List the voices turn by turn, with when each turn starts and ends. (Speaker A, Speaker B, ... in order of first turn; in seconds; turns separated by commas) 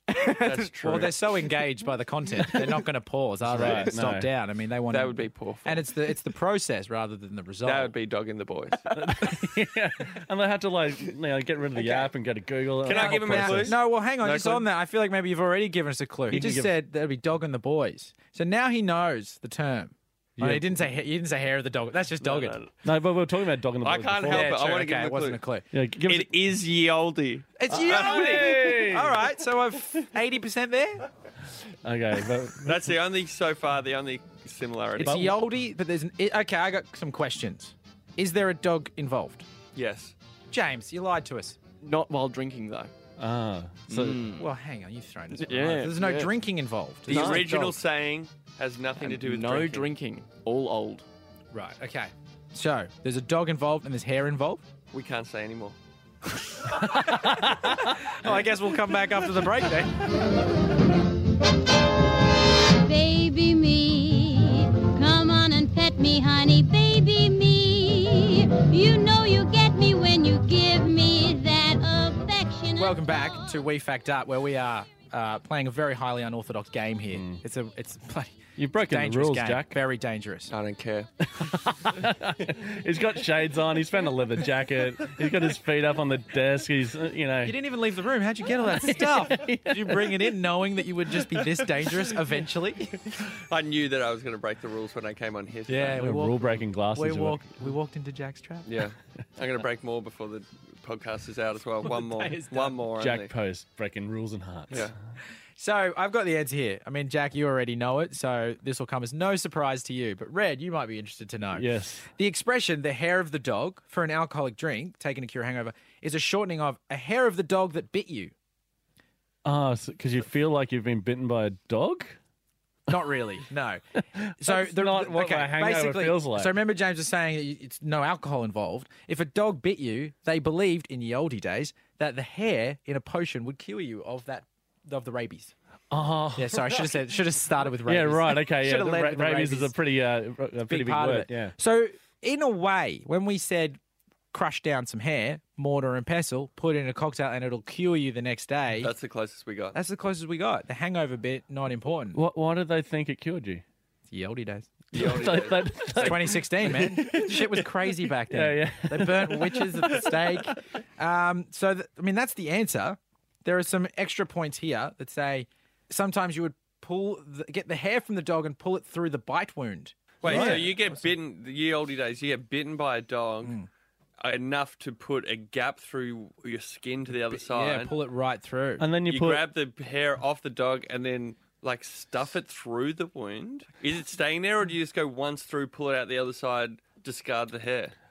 Speaker A: 0.1-7.9, Speaker B: 0.4-1.3, Speaker C: 3.4-4.3, Speaker B: 4.9-5.9, Speaker B: 7.6-8.9, Speaker C: 8.9-13.8, Speaker A: 11.8-12.1, Speaker B: 12.8-14.7, Speaker A: 12.9-22.6, Speaker C: 16.3-16.7, Speaker C: 20.4-20.7, Speaker B: 22.2-22.7, Speaker C: 22.8-24.6, Speaker B: 23.8-25.4, Speaker A: 24.3-25.7, Speaker C: 25.7-26.3, Speaker B: 26.0-28.5, Speaker A: 27.6-31.1, Speaker C: 27.7-29.2, Speaker C: 31.8-32.9, Speaker B: 32.6-35.3, Speaker A: 35.0-39.5, Speaker C: 35.0-35.4, Speaker B: 39.7-40.1, Speaker A: 40.5-41.6, Speaker D: 41.8-42.9, Speaker C: 43.2-44.2, Speaker D: 43.9-44.5, Speaker A: 44.4-47.8, Speaker D: 45.3-46.4, Speaker B: 47.1-49.9, Speaker C: 47.1-47.4, Speaker D: 49.0-51.0, Speaker A: 51.5-54.6, Speaker B: 54.9-55.8, Speaker A: 56.6-60.3, Speaker C: 56.7-58.0, Speaker E: 62.8-73.1, Speaker A: 72.8-80.5, Speaker C: 77.1-77.4, Speaker C: 78.6-79.8, Speaker B: 80.5-81.1, Speaker C: 81.3-87.5, Speaker A: 87.4-93.1, Speaker C: 88.7-90.3, Speaker C: 91.1-92.1, Speaker B: 93.2-96.0, Speaker A: 95.7-98.7, Speaker C: 95.9-97.4, Speaker B: 98.7-103.3, Speaker A: 101.8-102.8, Speaker C: 103.0-104.9, Speaker A: 105.6-118.3, Speaker C: 111.5-112.1, Speaker C: 119.4-122.2, Speaker A: 122.9-123.8, Speaker C: 124.2-126.5, Speaker A: 124.4-135.5, Speaker C: 135.9-136.9, Speaker A: 136.3-139.7, Speaker C: 137.8-141.5, Speaker A: 140.7-143.8, Speaker A: 144.3-148.9, Speaker B: 148.8-149.8, Speaker A: 149.7-152.2, Speaker C: 152.1-153.6, Speaker A: 154.1-155.2, Speaker B: 154.9-156.3, Speaker C: 154.9-160.4, Speaker A: 155.9-171.0, Speaker B: 170.2-173.6, Speaker C: 170.2-170.8, Speaker B: 174.2-177.9, Speaker A: 177.3-178.8, Speaker C: 178.8-179.4, Speaker B: 179.1-187.9